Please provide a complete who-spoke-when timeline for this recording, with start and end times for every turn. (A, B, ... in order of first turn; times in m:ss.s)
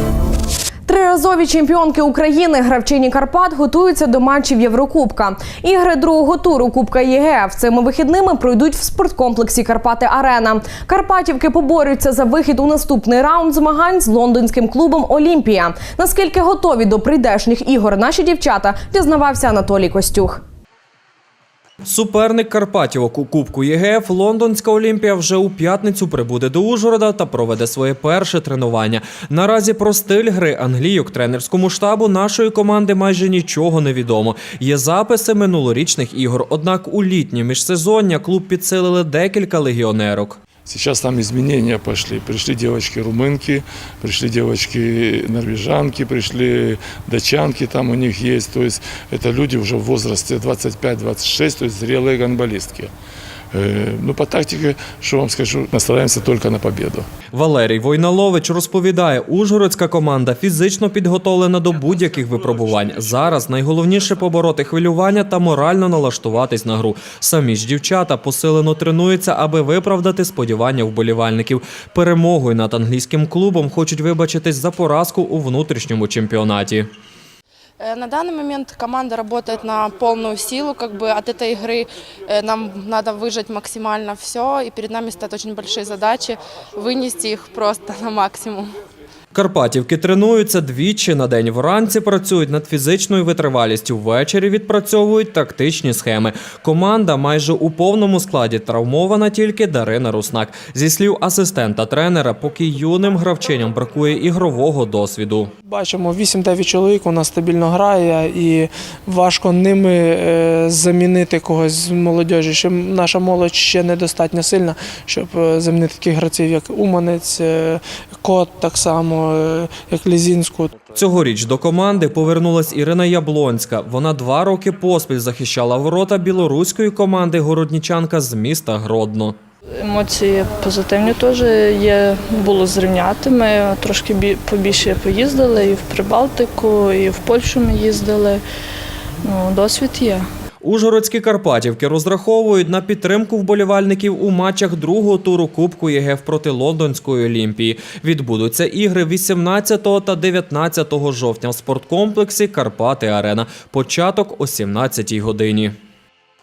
0:00.9-0:20.4 A
0:21.8-0:40.4 B
0:40.6-0:52.9 C
0:53.5-0:57.1 C
0:57.3-1:16.9 B
1:17.8-1:28.7 D
1:29.3-1:45.5 B
1:45.7-2:00.7 D
2:00.9-2:09.4 B
2:09.7-2:18.4 E
2:19.2-2:20.2 E
2:20.6-2:35.7 B